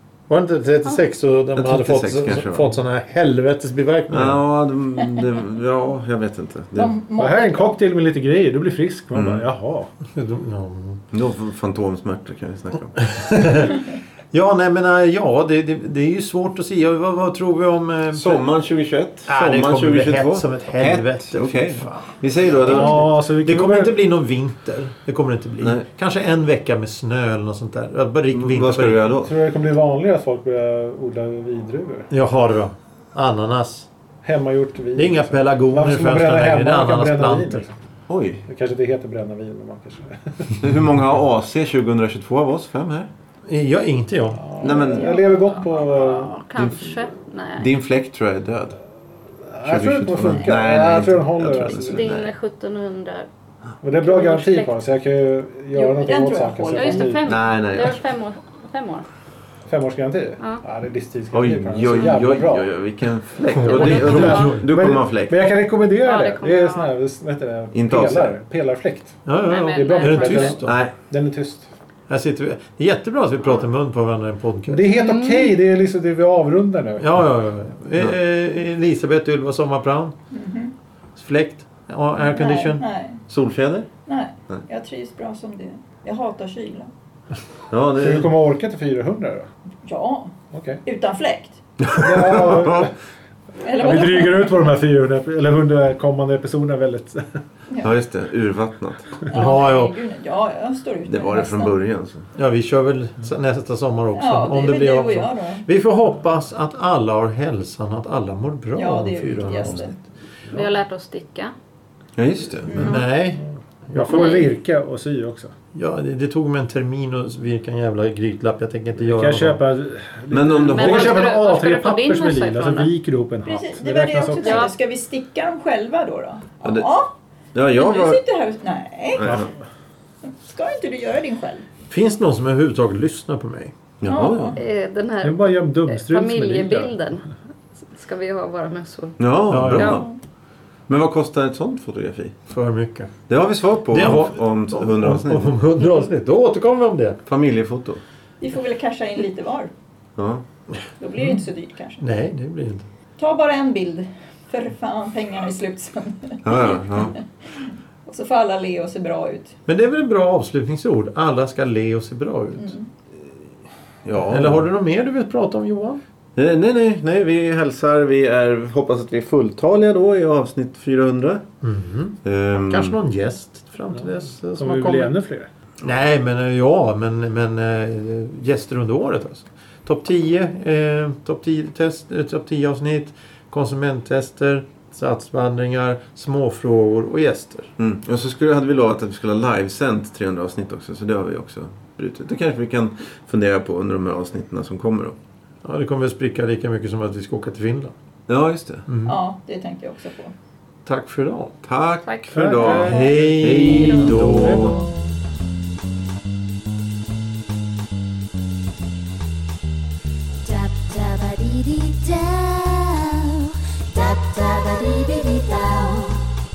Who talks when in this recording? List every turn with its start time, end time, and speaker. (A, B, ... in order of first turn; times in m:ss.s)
0:00.3-0:04.4 A
0:01.5-0:02.7 B
0:04.1-0:06.9 B
0:06.8-0:07.7 C
0:07.2-0:09.9 D
0:09.1-0:09.4 B
0:10.1-0:11.0 A
0:11.1-0:13.1 B
0:13.0-0:13.8 A
0:14.3-0:18.4 A
0:18.1-0:23.1 B
0:19.3-0:29.0 A
0:22.6-0:24.0 D
0:25.6-0:25.8 B
0:28.3-0:29.3 B
0:29.2-0:32.1 D
0:32.1-0:33.9 A
0:34.2-0:37.7 D
0:34.9-0:37.6 A
0:38.1-0:38.4 B
0:38.4-0:40.5 D
0:40.6-0:43.1 B
0:43.5-0:44.4 A
0:44.4-0:46.8 D
0:44.6-0:45.2 B
0:45.3-0:47.7 E
0:47.6-0:48.8 B
0:49.5-0:52.1 D
0:49.6-0:52.3 B
0:51.8-0:53.3 E
0:53.8-0:57.4 D
0:54.0-0:54.7 E
0:55.7-0:57.2 C
0:56.7-0:59.0 E
0:57.2-0:58.0 B
0:59.7-1:02.7 D
1:01.3-1:05.3 B
1:03.5-1:04.7 A
1:03.7-1:04.5 E
1:03.8-1:11.7 D
1:06.0-1:06.9 E
1:07.7-1:08.3 B
1:09.2-1:10.7 A
1:09.4-1:10.6 E
1:10.5-1:10.9 B
1:12.1-1:14.8 A
1:14.7-1:17.1 D
1:15.0-1:15.5 E
1:17.0-1:20.1 A
1:20.3-1:20.7 C
1:21.2-1:22.8 A
1:22.2-1:23.2 C
1:23.3-1:23.9 B
1:24.0-1:26.9 C
1:27.7-1:28.4 B
1:28.0-1:29.5 D
1:29.8-1:31.6 C
1:30.5-1:30.8 D
1:31.8-1:32.9 B
1:31.9-1:32.9 D
1:33.6-1:34.5 C
1:33.7-1:37.4 D
1:37.8-1:39.1 B
1:39.2-1:41.8 C
1:39.3-1:40.0 A
1:41.1-1:42.2 B
1:42.3-1:50.0 A
1:44.1-1:45.6 C
1:48.7-1:49.9 C
1:50.5-1:51.5 E
1:52.2-1:53.0 B
1:52.7-1:53.0 C
1:52.7-1:54.4 A
1:53.9-1:55.5 D
1:54.1-1:54.4 E
1:55.7-1:59.6 A
1:59.0-2:04.7 D
2:00.3-2:01.2 B
2:00.7-2:02.9 E
2:00.8-2:01.9 A
2:03.4-2:07.1 C
2:04.4-2:04.7 E
2:06.6-2:06.9 B
2:07.5-2:08.2 B
2:07.7-2:09.4 C
2:09.2-2:09.5 B
2:10.2-2:11.6 C
2:11.9-2:13.8 A
2:14.0-2:14.6 B
2:14.0-2:14.6 C
2:14.6-2:17.2 E
2:15.2-2:16.9 D
2:17.9-2:19.2 E
2:19.2-2:20.1 B
2:19.5-2:20.0 A
2:19.7-2:20.0 E
2:19.8-2:20.1 C
2:20.9-2:22.4 B
2:22.5-2:23.1 A
2:23.3-2:25.6 B
2:23.9-2:27.2 A
2:27.2-2:28.0 B
2:28.4-2:29.7 C
2:30.2-2:30.4 B
2:31.0-2:32.0 C
2:32.0-2:32.8 A
2:33.2-2:39.6 C
2:36.4-2:37.2 B
2:39.7-2:42.8 A
2:42.6-2:42.9 C
2:44.0-2:44.6 B
2:44.2-2:46.0 A
2:46.4-2:51.4 B
2:51.6-2:52.2 A
2:52.2-2:53.0 B
2:52.7-2:55.1 A
2:54.0-2:55.5 D
2:55.8-3:07.7 A
3:07.8-3:15.2 B
3:15.6-3:17.9 A
3:18.3-3:18.8 B
3:18.9-3:19.2 A
3:19.0-3:20.3 C
3:20.8-3:21.5 A
3:21.6-3:24.9 B
3:22.0-3:24.3 E
3:22.3-3:24.8 D
3:22.6-3:24.9 A
3:30.4-3:36.2 F